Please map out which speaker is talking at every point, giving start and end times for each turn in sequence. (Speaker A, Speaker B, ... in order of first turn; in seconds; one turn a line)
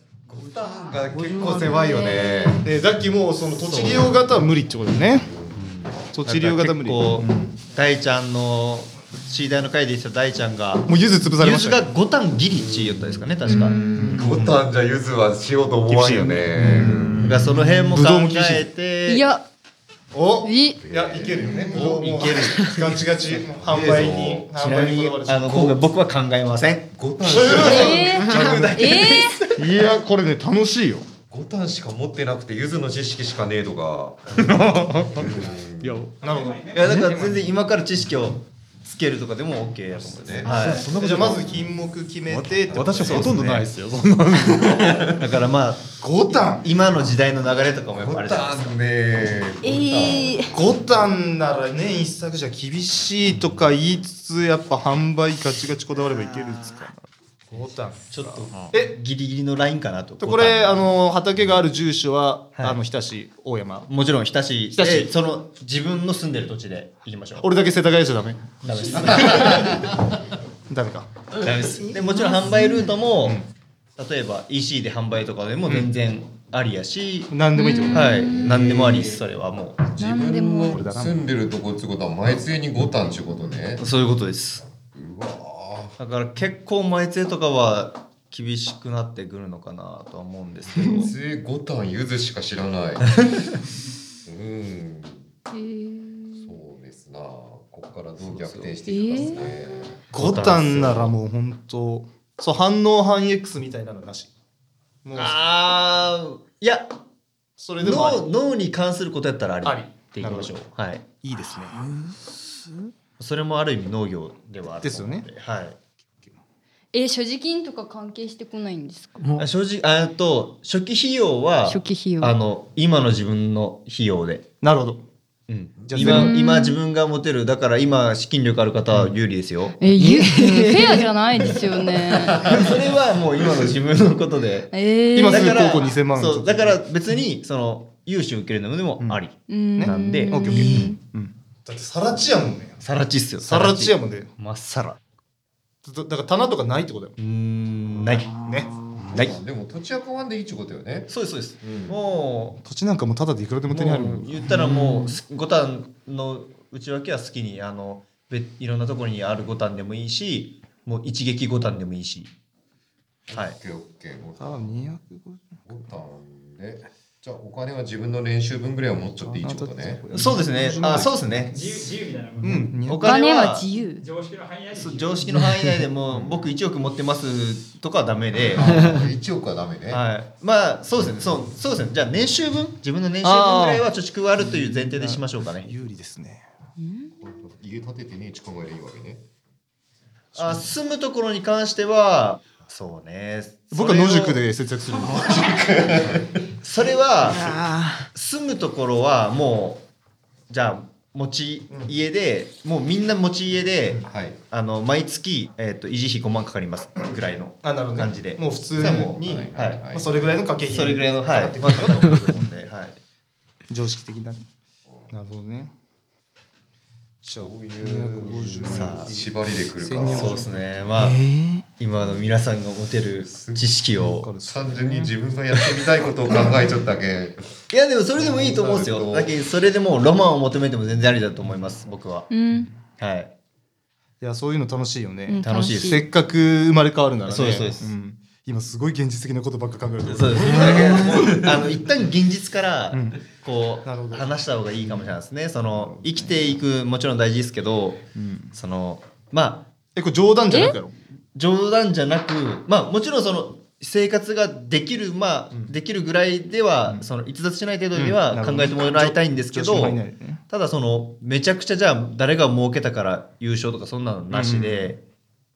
Speaker A: 0.3-2.7
Speaker B: 1.0-2.4
Speaker C: 1.6-2.6
Speaker D: 2.6-5.3
Speaker E: 3.6-4.0
Speaker A: 3.7-4.0
Speaker E: 5.5-14.5
Speaker D: 6.1-7.4
Speaker D: 10.9-11.8
Speaker A: 13.5-17.4
Speaker C: 13.5-14.0
Speaker D: 14.0-14.6
Speaker D: 15.9-17.2
Speaker E: 16.6-19.3
Speaker F: 16.8-17.6
Speaker D: 17.9-18.7
Speaker C: 19.1-19.4
Speaker D: 20.1-25.9
Speaker C: 20.4-20.8
Speaker A: 20.9-21.9
Speaker E: 21.7-22.8
Speaker A: 23.5-25.2
Speaker E: 24.6-29.6
Speaker A: 27.0-28.1
Speaker D: 27.3-28.7
Speaker C: 27.6-29.4
Speaker D: 29.6-31.1
Speaker A: 31.3-36.1
Speaker D: 34.4-35.4
Speaker F: 35.8-36.1
Speaker G: 36.2-37.5
Speaker D: 36.2-36.7
Speaker E: 36.7-40.9
Speaker A: 39.9-41.6
Speaker D: 40.5-43.7
Speaker F: 40.7-41.4
Speaker F: 42.3-44.9
Speaker A: 42.5-43.7
Speaker A: 44.5-45.2
Speaker E: 45.2-48.8
Speaker D: 46.0-46.7
Speaker A: 48.0-50.4
Speaker E: 49.6-50.4
Speaker D: 50.5-59.0
Speaker E: 58.1-60.9
Speaker D: 60.2-63.9
Speaker E: 63.9-67.5
Speaker B: 64.8-65.1
Speaker D: 67.4-69.9
Speaker E: 68.6-69.9
Speaker D: 70.7-71.1
Speaker E: 71.4-73.4
Speaker C: 72.4-72.8
Speaker D: 73.2-73.5
Speaker E: 74.0-77.3
Speaker D: 77.3-78.2
Speaker C: 77.6-78.5
Speaker E: 77.9-79.8
Speaker A: 78.2-79.2
Speaker A: 79.8-83.8
Speaker C: 80.0-80.8
Speaker D: 80.7-81.2
Speaker E: 83.8-84.7
Speaker A: 85.0-86.0
Speaker E: 86.0-91.1
Speaker A: 90.9-93.6
Speaker A: 94.3-95.3
Speaker C: 95.5-96.5
Speaker A: 96.3-100.1
Speaker E: 98.2-98.8
Speaker C: 98.9-99.4
Speaker D: 100.1-104.3
Speaker E: 100.1-101.1
Speaker D: 105.0-105.4
Speaker E: 105.2-106.9
Speaker D: 107.6-108.3
Speaker E: 107.8-111.0
Speaker D: 109.6-110.6
Speaker D: 111.2-111.8
Speaker B: 111.8-112.1
Speaker E: 113.2-115.8
Speaker D: 114.8-115.3
Speaker C: 116.9-119.2
Speaker B: 119.2-119.5
Speaker E: 119.4-124.5
Speaker C: 121.7-122.3
Speaker D: 124.6-125.0
Speaker E: 125.5-129.8
Speaker D: 125.9-126.4
Speaker C: 126.0-126.8
Speaker C: 129.8-132.5
Speaker B: 129.9-131.1
Speaker E: 132.3-134.7
Speaker C: 134.7-135.8
Speaker D: 135.1-136.8
Speaker E: 135.3-140.9
Speaker C: 139.5-141.0
Speaker D: 139.8-142.8
Speaker E: 142.8-145.0
Speaker D: 143.4-144.3
Speaker D: 145.8-147.2
Speaker E: 147.2-148.3
Speaker D: 148.4-148.7
Speaker B: 148.4-149.0
Speaker A: 149.0-151.1
Speaker E: 151.1-152.6
Speaker A: 151.6-152.0
Speaker D: 152.6-154.3
Speaker E: 153.7-162.3
Speaker B: 154.5-155.2
Speaker A: 163.3-164.8
Speaker E: 163.3-163.6
Speaker D: 164.4-165.6
Speaker A: 165.7-171.3
Speaker D: 169.2-171.8
Speaker E: 170.1-171.6
Speaker G: 171.5-172.8
Speaker D: 172.4-173.1
Speaker E: 172.8-173.7
Speaker C: 173.0-174.0
Speaker G: 174.0-175.4
Speaker E: 174.7-178.8
Speaker A: 176.1-176.4
Speaker A: 178.5-180.0
Speaker E: 179.9-185.7
Speaker D: 183.2-183.9
Speaker D: 184.4-186.4
Speaker C: 186.8-187.1
Speaker A: 187.2-189.2
Speaker E: 190.4-194.4
Speaker D: 193.7-195.8
Speaker A: 195.2-196.4
Speaker E: 196.6-197.6
Speaker B: 197.2-198.1
Speaker E: 198.1-199.8
Speaker E: 200.5-209.8
Speaker A: 204.1-204.4
Speaker D: 207.6-212.4
Speaker A: 208.8-210.2
Speaker E: 210.7-213.0
Speaker D: 213.7-214.5
Speaker D: 215.1-215.7
Speaker D: 217.2-220.5
Speaker A: 217.3-220.9
Speaker E: 218.7-219.1
Speaker E: 220.0-221.2
Speaker B: 221.0-221.6
Speaker E: 221.8-224.3
Speaker A: 222.0-222.3
Speaker A: 223.2-223.7
Speaker D: 224.0-225.2
Speaker A: 224.4-227.5
Speaker E: 227.7-232.3
Speaker A: 228.2-229.3
Speaker C: 232.3-232.7
Speaker E: 233.0-233.3
Speaker D: 234.2-241.7
Speaker C: 235.3-236.0
Speaker E: 235.4-236.0
Speaker E: 237.3-237.9
Speaker E: 240.1-249.7
Speaker A: 240.7-241.3
Speaker D: 242.9-243.2
Speaker D: 243.8-244.3
Speaker D: 248.2-248.5
Speaker D: 249.9-250.9
Speaker C: 250.5-250.8
Speaker E: 251.3-265.0
Speaker D: 257.9-260.4
Speaker D: 264.3-264.9